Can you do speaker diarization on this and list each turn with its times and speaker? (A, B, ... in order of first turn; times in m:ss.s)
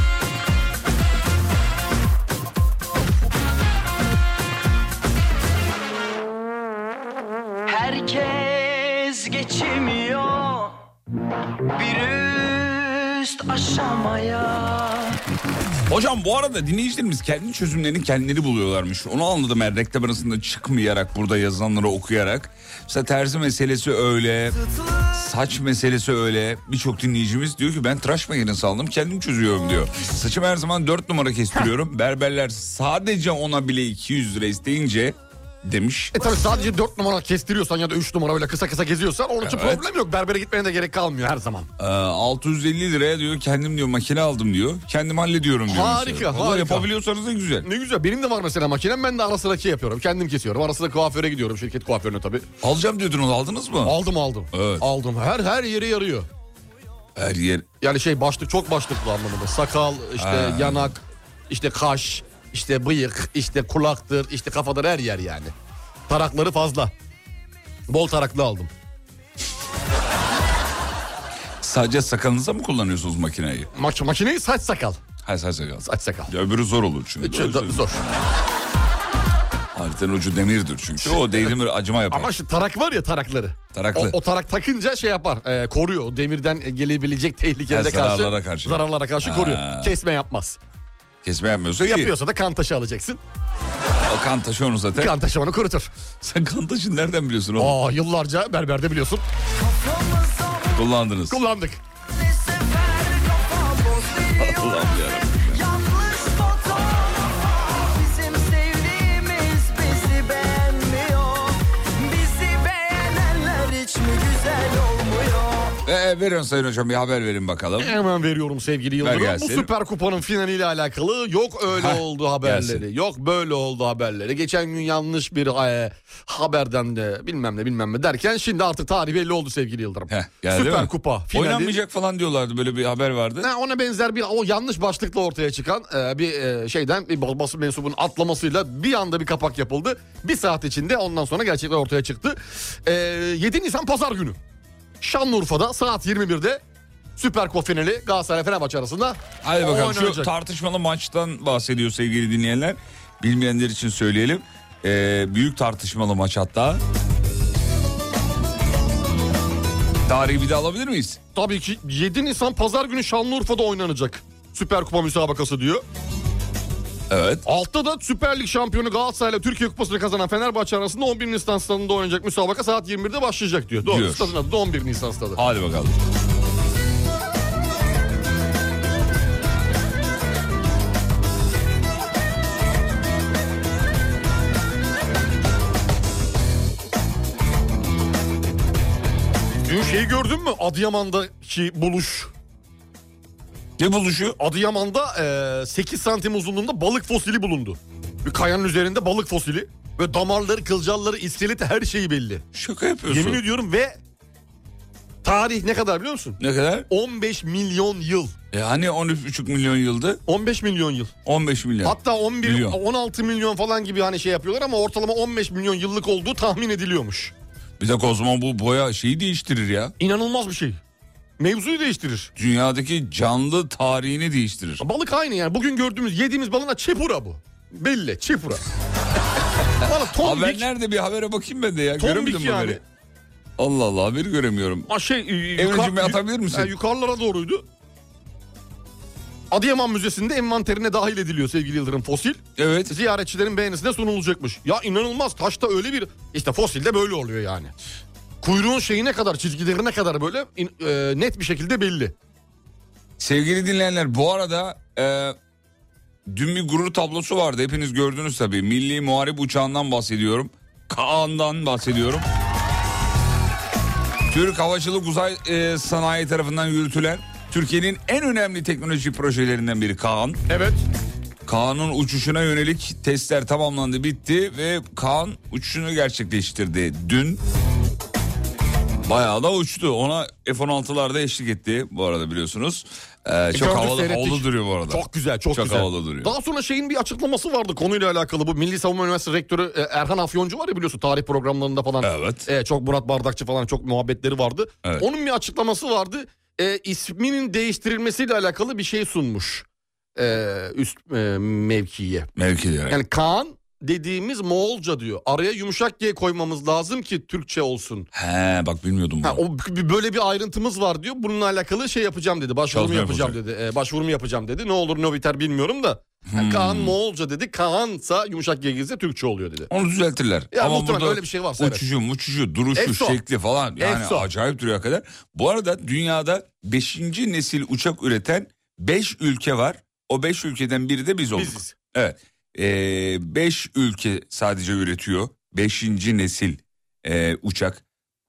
0:07.6-0:10.8 A
0:11.7-0:15.2 A
0:15.9-0:24.6 B
0:25.1-0:36.1 B
0:36.1-0:41.7 C
0:39.4-0:39.8 B
0:41.8-0:47.7 B
0:45.7-0:46.9 C
0:47.6-0:52.5 C
0:52.6-0:54.0 B
0:53.8-0:56.3 C
0:54.5-0:54.8 B
0:57.2-0:57.7 B
0:57.8-1:05.5 C
1:00.2-1:00.9 B
1:06.1-1:06.9 C
1:07.9-1:08.7 C
1:11.6-1:13.7 B
1:13.7-1:15.0 C
1:15.2-1:18.3 B
1:15.8-1:16.3 C
1:17.2-1:18.0 C
1:19.7-1:22.3 B
1:21.0-1:21.5 C
1:22.1-1:30.6 C
1:23.7-1:24.2 B
1:27.7-1:29.9 B
1:31.2-1:32.1 B
1:31.8-1:33.2 C
1:34.0-1:35.1 B
1:35.0-1:35.9 C
1:36.2-1:37.8 B
1:37.6-1:39.2 C
1:39.6-1:40.9 A
1:40.8-1:41.4 B
1:41.3-1:41.8 C
1:42.1-1:55.8 A
1:44.4-1:45.6 B
1:55.8-1:58.0 B
1:57.8-2:11.8 C
1:59.0-1:59.7 B
2:01.7-2:02.8 B
2:10.1-2:13.5 B
2:13.4-2:24.4 C
2:25.0-2:26.6 C
2:27.2-2:30.3 C
2:29.4-2:36.8 B
2:40.0-2:41.2 B
2:41.3-2:45.8 C
2:47.1-2:47.4 B
2:47.4-2:55.4 C
2:53.8-2:54.4 B
2:55.4-2:56.0 B
3:09.6-3:12.3 C
3:13.8-3:14.4 B
3:14.4-3:22.4 C
3:22.5-3:23.4 B
3:23.1-3:24.0 C
3:25.2-3:28.3 C
3:26.4-3:26.9 B
3:28.5-3:30.2 B
3:30.3-3:31.1 C
3:31.2-3:32.8 B
3:31.8-3:37.3 C
3:37.8-3:39.9 B
3:40.0-3:40.8 C
3:41.4-3:42.3 C
3:42.4-3:44.8 B
3:44.8-3:48.6 C
3:49.8-3:50.6 C
3:50.1-3:52.8 B
3:52.0-3:52.8 C
3:53.6-3:54.9 B
3:54.9-3:57.6 C
3:55.5-3:56.7 B
3:59.5-4:07.7 C
4:02.6-4:02.9 B
4:08.4-4:12.1 C
4:13.2-4:15.4 B
4:16.3-4:22.2 B
4:24.3-4:30.4 B
4:30.5-4:30.8 C
4:31.4-4:37.4 B
4:39.0-4:46.3 B
4:43.5-5:02.3 C
4:52.0-4:52.5 B
5:02.4-5:03.0 B
5:02.9-5:08.1 C
5:08.1-5:09.4 B
5:09.2-5:19.7 C
5:12.7-5:13.4 B
5:16.3-5:17.0 B
5:19.7-5:37.8 B
5:20.5-5:21.8 C
5:22.7-5:23.2 C
5:23.8-5:24.3 C
5:31.3-5:31.7 C